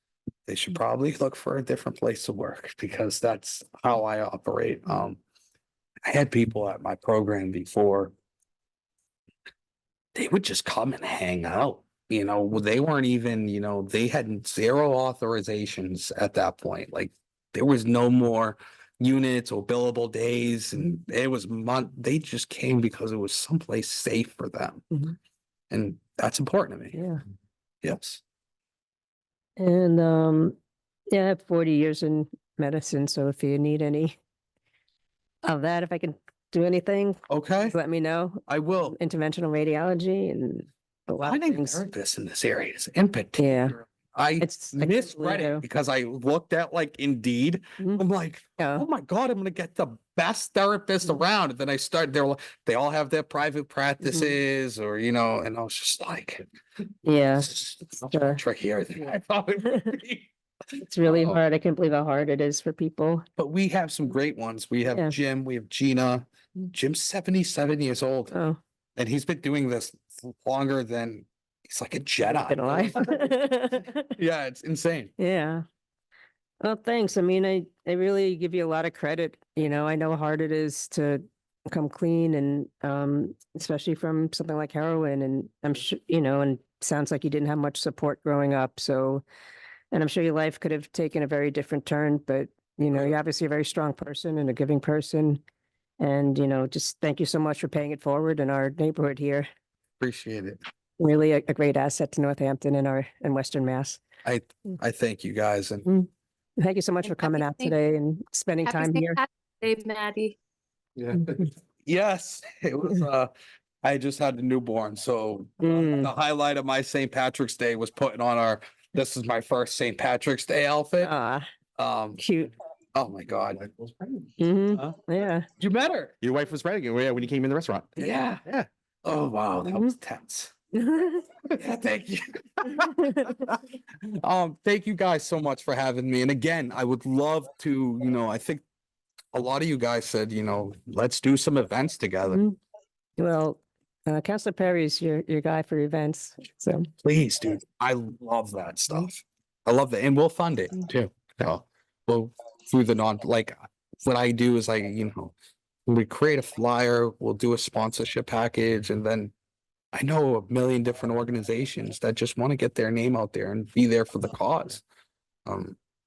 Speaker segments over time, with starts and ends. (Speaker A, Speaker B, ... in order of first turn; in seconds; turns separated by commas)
Speaker A: 0.5-5.2, Speaker A: 6.0-8.1, Speaker A: 10.1-24.9, Speaker A: 25.7-27.0, Speaker B: 26.9-27.2, Speaker A: 27.8-28.2, Speaker B: 29.6-30.6, Speaker B: 31.1-34.1, Speaker B: 35.4-41.9, Speaker A: 37.3-37.7, Speaker A: 38.5-39.0, Speaker A: 41.2-56.5, Speaker B: 43.4-43.8, Speaker B: 44.4-45.6, Speaker B: 47.8-48.0, Speaker B: 48.6-48.8, Speaker B: 54.0-54.3, Speaker B: 57.0-58.4, Speaker A: 57.4-60.3, Speaker B: 60.8-63.2, Speaker A: 61.0-61.4, Speaker A: 63.4-68.3, Speaker B: 68.3-68.6, Speaker A: 69.0-73.3, Speaker B: 72.2-74.1, Speaker A: 74.2-75.1, Speaker B: 75.2-75.6, Speaker B: 76.6-89.2, Speaker B: 89.9-95.4, Speaker B: 96.0-99.5, Speaker A: 100.0-100.6, Speaker B: 101.0-104.0, Speaker A: 104.2-105.9, Speaker B: 105.8-109.2, Speaker C: 107.0-107.8, Speaker C: 108.6-110.3, Speaker A: 111.0-113.3, Speaker A: 113.8-121.1, Speaker B: 115.6-116.1, Speaker B: 121.0-121.5, Speaker A: 121.8-122.2, Speaker B: 122.2-122.5, Speaker A: 122.9-124.9, Speaker B: 124.4-125.5, Speaker A: 125.6-126.1, Speaker D: 126.2-128.7, Speaker A: 128.0-128.4, Speaker A: 129.0-130.5, Speaker B: 129.6-129.9, Speaker B: 130.7-131.2, Speaker A: 131.6-133.5, Speaker A: 134.2-138.6, Speaker A: 139.3-142.4, Speaker B: 142.3-142.6, Speaker B: 143.2-146.9, Speaker A: 147.0-155.3, Speaker A: 155.9-159.3, Speaker A: 159.9-164.8, Speaker A: 165.4-165.8